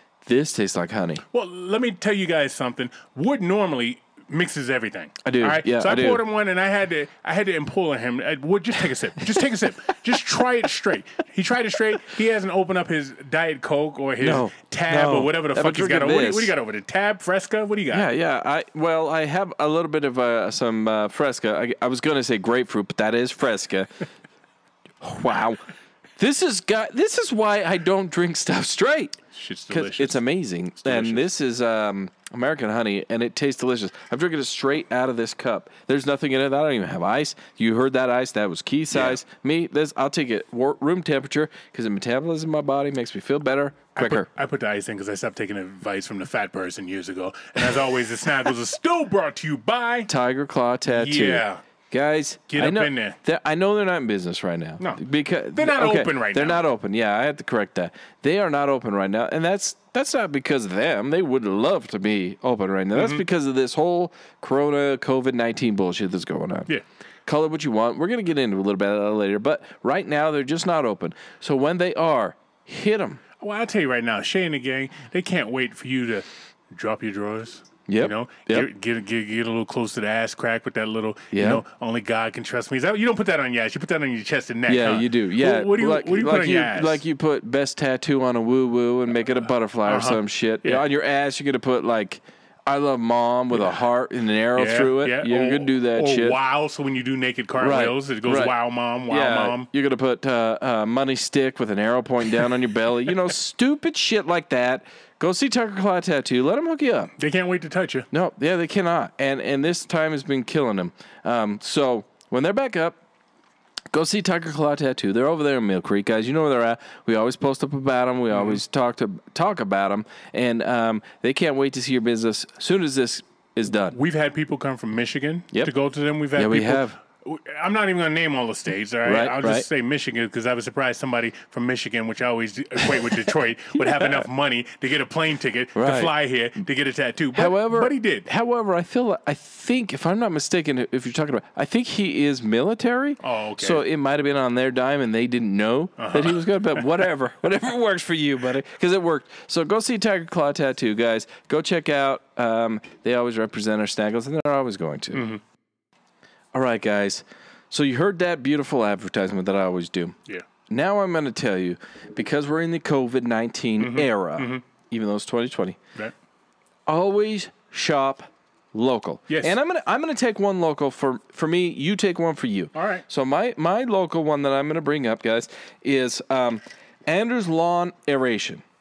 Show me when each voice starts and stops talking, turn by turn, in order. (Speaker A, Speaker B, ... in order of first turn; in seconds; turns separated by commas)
Speaker A: 0.2-1.2, Speaker B: 1.3-18.1, Speaker A: 5.2-6.2, Speaker A: 14.2-16.5, Speaker A: 17.9-24.0, Speaker A: 25.0-25.6, Speaker A: 26.2-44.3, Speaker B: 29.3-30.2, Speaker B: 30.8-31.3, Speaker B: 38.9-39.2, Speaker B: 44.0-50.1, Speaker A: 50.1-66.7, Speaker B: 50.9-51.6, Speaker B: 52.5-53.2, Speaker B: 55.5-56.6, Speaker B: 62.9-63.2, Speaker A: 67.3-73.2, Speaker B: 73.4-87.0, Speaker A: 77.9-78.7, Speaker A: 81.3-81.6, Speaker A: 84.7-96.4, Speaker B: 89.9-90.8, Speaker B: 93.5-93.8, Speaker B: 94.5-99.7, Speaker A: 97.6-98.5, Speaker A: 99.1-107.1, Speaker B: 107.2-108.1, Speaker A: 108.1-113.0, Speaker A: 113.9-124.0, Speaker B: 118.3-118.6, Speaker B: 123.9-138.3, Speaker A: 126.4-127.0, Speaker A: 129.1-129.7, Speaker A: 133.9-134.2, Speaker A: 135.8-136.1, Speaker A: 137.3-155.3, Speaker B: 143.2-143.8, Speaker B: 146.0-146.9, Speaker B: 155.1-155.4, Speaker A: 156.5-160.2, Speaker A: 160.7-165.8, Speaker B: 163.8-164.6, Speaker A: 166.9-178.6, Speaker B: 169.3-169.6, Speaker B: 172.8-173.0